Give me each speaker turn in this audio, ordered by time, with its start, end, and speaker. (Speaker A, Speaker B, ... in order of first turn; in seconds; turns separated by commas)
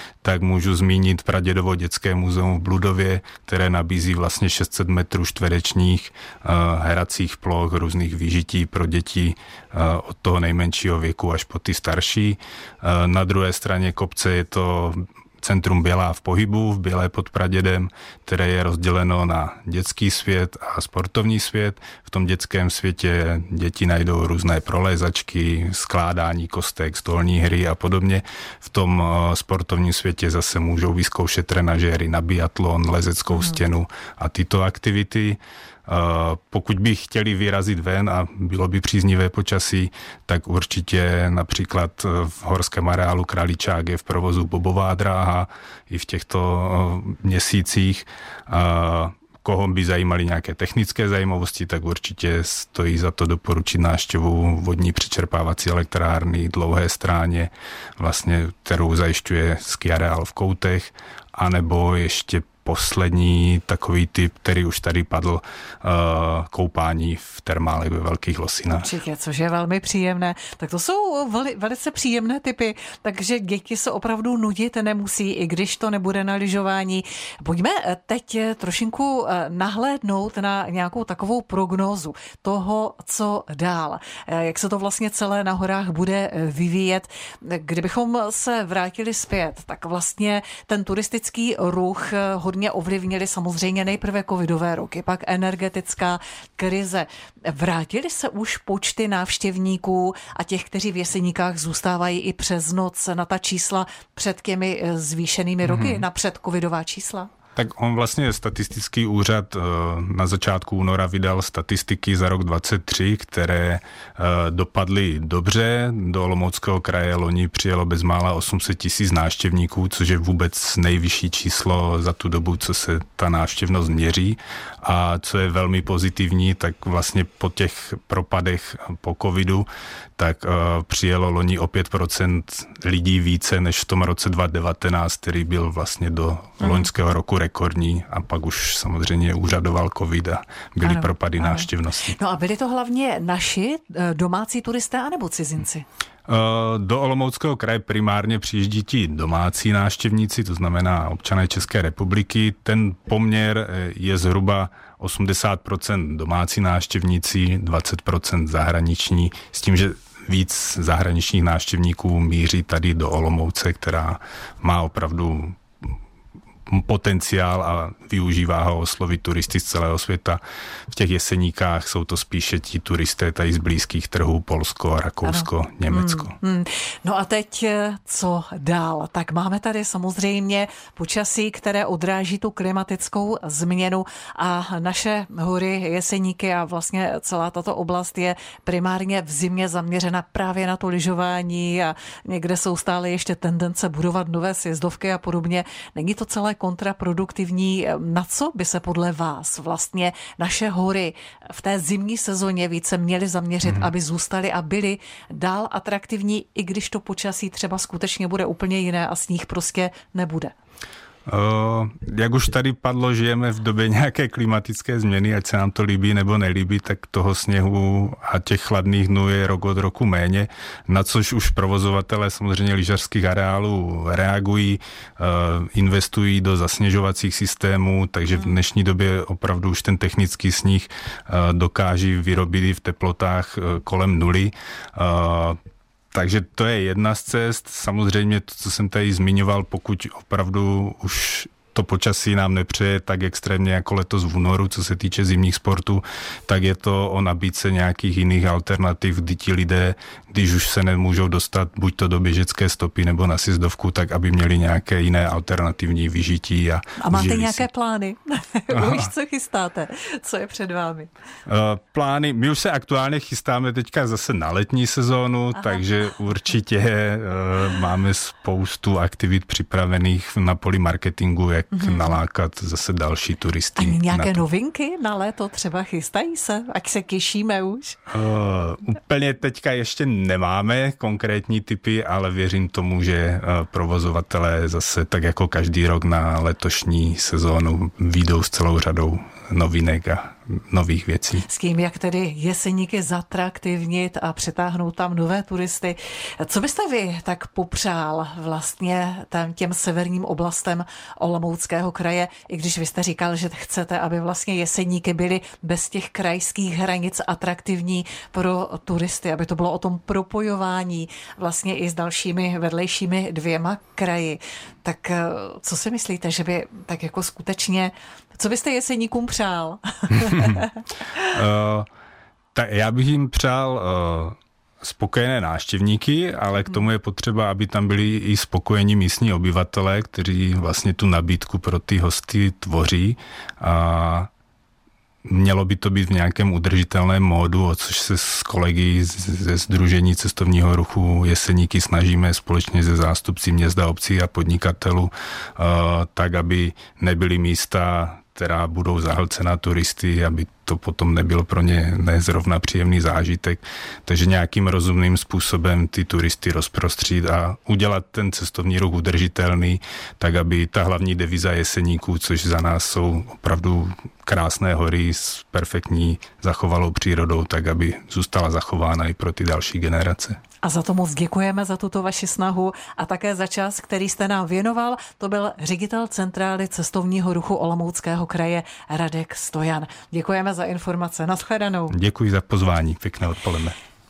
Speaker A: 0.2-68.9, Speaker B: 68.7-107.3, Speaker A: 105.7-106.0, Speaker A: 107.6-142.2, Speaker B: 140.8-145.8, Speaker A: 146.3-165.6, Speaker A: 166.7-170.4, Speaker A: 170.9-176.3, Speaker B: 175.2-210.5, Speaker A: 211.3-235.6, Speaker A: 236.1-257.7, Speaker B: 257.0-261.1, Speaker A: 258.7-259.1, Speaker A: 261.5-274.4, Speaker B: 271.7-272.2, Speaker B: 273.8-278.0, Speaker A: 278.1-291.4, Speaker B: 291.4-320.7, Speaker A: 321.3-321.9, Speaker A: 322.6-334.3, Speaker A: 335.3-370.4, Speaker B: 370.6-381.9, Speaker A: 381.9-383.8